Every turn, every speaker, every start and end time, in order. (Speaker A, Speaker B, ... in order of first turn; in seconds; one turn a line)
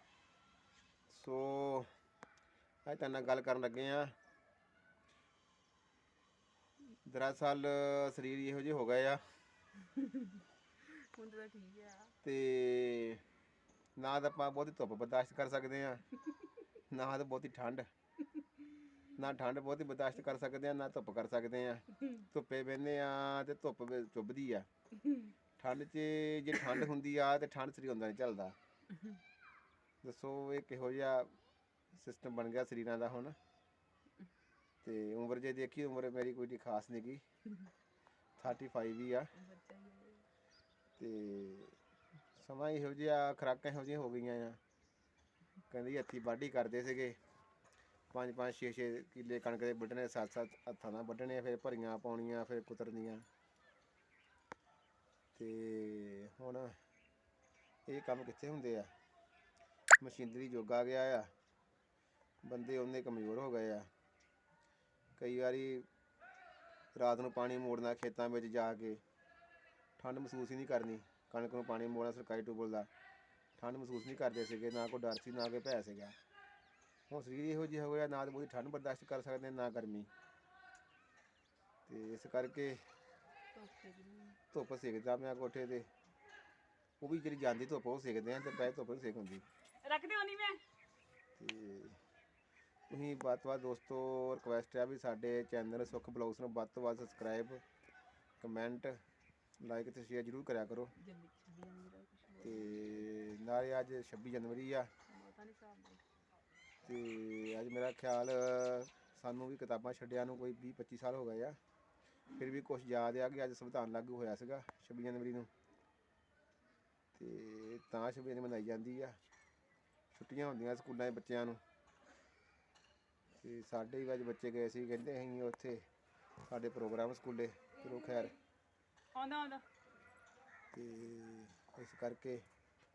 Speaker A: 1.1-1.9
Speaker A: 2.9-4.1
Speaker A: 7.1-9.2
Speaker B: 9.9-12.1
Speaker A: 12.2-13.2
Speaker A: 14.0-16.0
Speaker A: 16.9-17.9
Speaker A: 19.2-24.7
Speaker A: 25.6-28.6
Speaker A: 30.0-31.3
Speaker A: 31.9-33.4
Speaker A: 34.8-37.2
Speaker A: 38.4-39.3
Speaker B: 39.3-40.3
Speaker A: 41.0-41.8
Speaker A: 42.4-44.6
Speaker A: 45.7-47.2
Speaker A: 48.1-53.3
Speaker A: 55.4-56.8
Speaker A: 57.9-58.9
Speaker A: 60.0-61.3
Speaker A: 62.4-63.9
Speaker A: 65.2-65.9
Speaker A: 67.0-69.0
Speaker A: 70.0-72.9
Speaker A: 73.6-76.2
Speaker A: 77.1-80.1
Speaker A: 81.9-82.8
Speaker B: 83.5-84.4
Speaker A: 84.5-85.9
Speaker A: 87.0-89.5
Speaker B: 89.8-90.6
Speaker A: 91.4-92.0
Speaker A: 92.9-97.6
Speaker A: 98.4-99.0
Speaker A: 99.6-100.9
Speaker B: 101.0-102.9
Speaker A: 102.4-104.9
Speaker B: 105.1-106.0
Speaker A: 106.8-111.6
Speaker A: 112.4-115.5
Speaker A: 117.2-119.2
Speaker A: 120.1-121.6
Speaker A: 123.4-125.9
Speaker A: 126.5-128.3
Speaker B: 129.1-129.7
Speaker A: 130.7-132.4